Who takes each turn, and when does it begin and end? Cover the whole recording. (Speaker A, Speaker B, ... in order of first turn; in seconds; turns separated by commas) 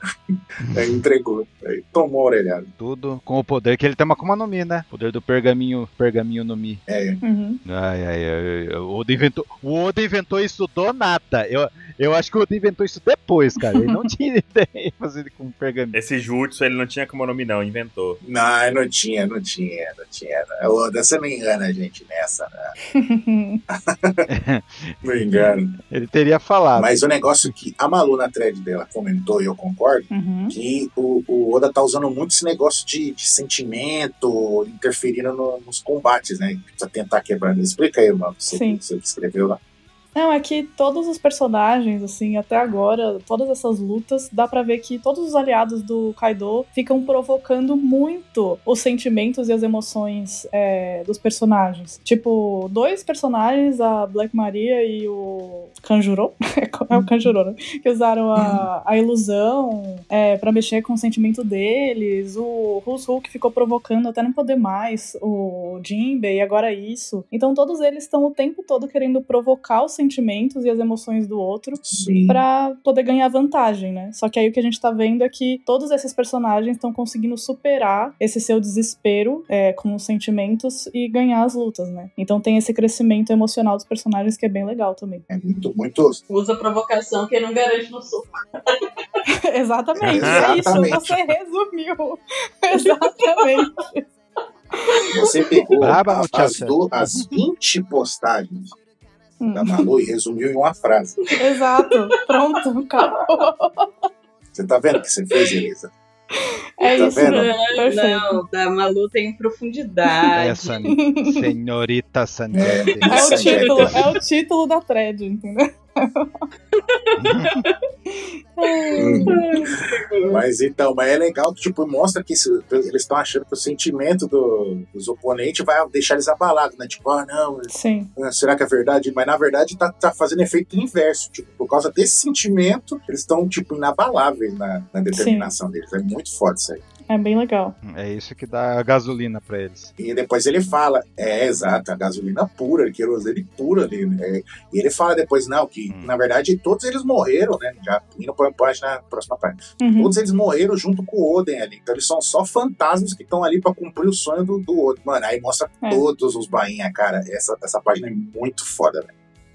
Speaker A: 0.3-2.7, Speaker B: 2.8-6.8, Speaker A: 6.9-7.2, Speaker C: 7.2-7.6, Speaker B: 7.7-16.0, Speaker C: 13.7-14.0, Speaker D: 15.9-18.2, Speaker A: 18.2-22.7, Speaker C: 22.9-23.6, Speaker A: 23.7-24.3, Speaker B: 24.3-27.0, Speaker A: 25.0-25.8, Speaker A: 26.8-39.6, Speaker C: 30.1-30.6, Speaker C: 38.5-38.8, Speaker C: 40.1-85.2, Speaker A: 56.9-57.3, Speaker A: 58.4-58.6, Speaker A: 71.8-72.4, Speaker A: 85.3-86.2, Speaker E: 86.3-88.8, Speaker C: 89.3-94.1, Speaker A: 90.0-91.2, Speaker D: 90.1-91.0, Speaker E: 92.8-93.7, Speaker C: 94.8-95.2, Speaker A: 95.1-98.7, Speaker B: 95.8-97.3, Speaker C: 99.4-99.8, Speaker A: 99.5-101.2, Speaker E: 101.2-102.2, Speaker C: 101.4-103.9, Speaker A: 104.5-105.9, Speaker C: 106.4-108.4, Speaker E: 106.8-111.0, Speaker A: 106.9-107.5, Speaker B: 110.3-113.9, Speaker C: 110.9-111.4, Speaker A: 112.5-114.0, Speaker C: 113.1-116.3, Speaker E: 113.2-113.8, Speaker E: 116.7-117.8, Speaker B: 117.2-117.6, Speaker C: 118.1-119.7, Speaker E: 118.7-120.4, Speaker A: 119.0-119.5, Speaker A: 120.2-136.8, Speaker C: 127.7-128.1, Speaker C: 135.1-135.5, Speaker C: 137.1-137.8, Speaker B: 137.8-139.9, Speaker A: 140.0-159.1, Speaker C: 149.8-150.1